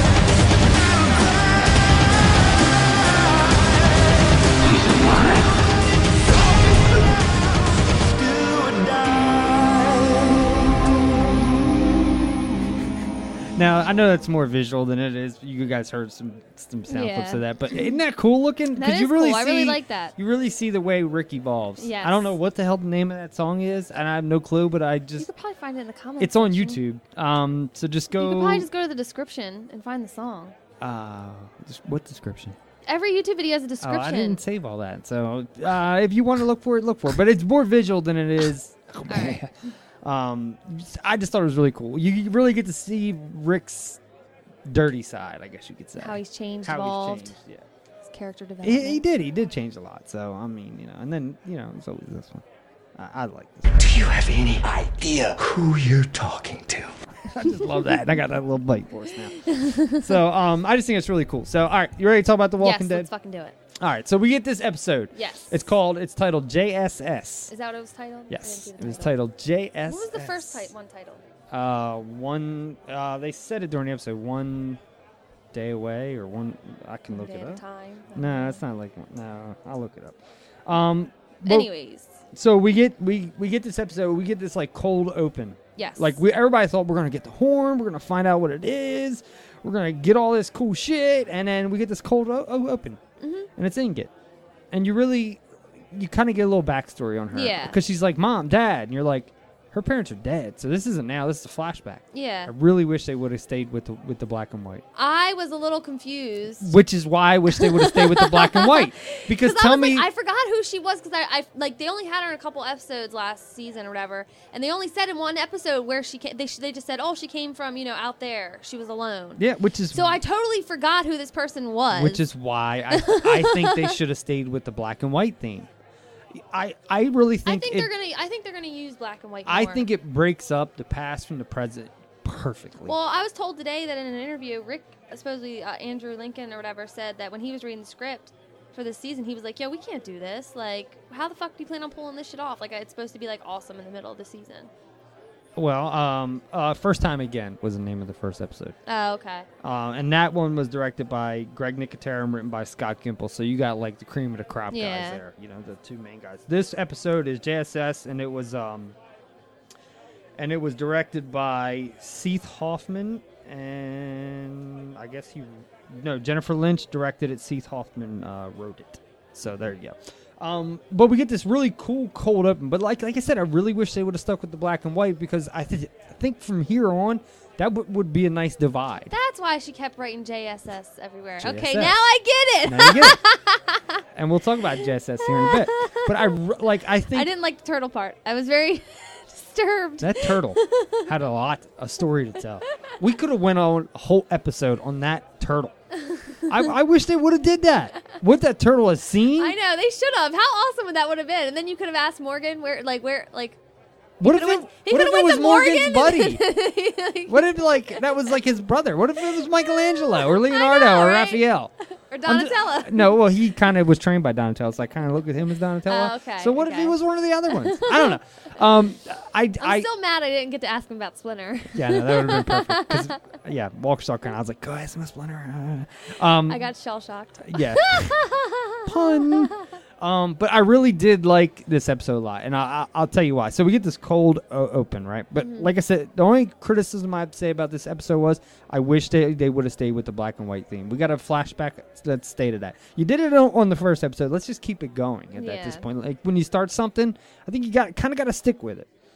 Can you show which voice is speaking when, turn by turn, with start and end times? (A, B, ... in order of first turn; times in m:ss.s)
0:13.6-0:25.3 A
0:16.9-0:17.4 B
0:18.8-0:20.1 B
0:21.8-0:22.4 B
0:25.2-0:26.8 B
0:26.2-0:28.7 A
0:28.2-0:30.5 B
0:30.8-0:32.6 A
0:32.8-0:34.4 B
0:33.8-0:39.5 A
0:39.1-0:39.4 B
0:40.0-0:44.0 A
0:44.6-0:47.6 A
0:46.0-0:47.3 B
0:48.1-0:49.0 B
0:48.6-0:52.4 A
0:52.9-0:53.9 A
0:53.8-0:56.9 C
0:57.3-1:03.1 A
0:59.5-1:00.1 B
1:02.6-1:03.6 B
1:03.8-1:07.5 A
1:05.1-1:05.6 B
1:07.5-1:09.2 B
1:08.3-1:10.7 A
1:09.8-1:11.2 B
1:11.5-1:14.8 A
1:15.5-1:17.6 A
1:17.1-1:18.6 B
1:18.1-1:21.7 A
1:21.4-1:22.2 B
1:22.3-1:33.0 A
1:25.8-1:26.2 B
1:33.2-1:33.5 B
1:33.6-1:34.1 A
1:34.7-1:44.8 A
1:37.3-1:37.8 B
1:42.1-1:42.5 B
1:45.0-1:46.7 B
1:46.6-1:50.1 A
1:47.5-1:59.4 B
1:59.4-2:00.2 A
1:59.9-2:02.2 B
2:01.9-2:05.7 A
2:03.0-2:03.9 B
2:06.3-2:07.9 A
2:07.4-2:09.9 B
2:09.4-2:12.9 A
2:12.8-2:24.7 B
2:25.6-2:28.7 A
2:28.8-2:29.4 B
2:29.6-2:39.0 A
2:34.7-2:35.2 B
2:40.4-2:59.1 A
2:59.1-3:04.0 B
3:01.4-3:02.0 A
3:02.6-3:03.2 A
3:04.1-3:07.3 A
3:05.3-3:06.3 B
3:07.1-3:11.0 B
3:10.0-3:15.7 A
3:16.1-3:16.4 B
3:16.5-3:19.5 A
3:19.4-3:23.6 B
3:24.2-3:26.4 A
3:24.2-3:28.1 B
3:27.3-3:31.7 A
3:29.4-3:31.4 B
3:32.1-3:33.1 B
3:32.2-3:39.9 A
3:35.9-3:37.0 B
3:37.5-3:38.2 B
3:39.6-3:43.1 B
3:41.7-3:46.6 A
3:46.5-3:49.6 B
3:47.5-3:48.1 A
3:48.8-4:08.9 A
3:55.4-3:55.7 B
4:05.4-4:05.8 B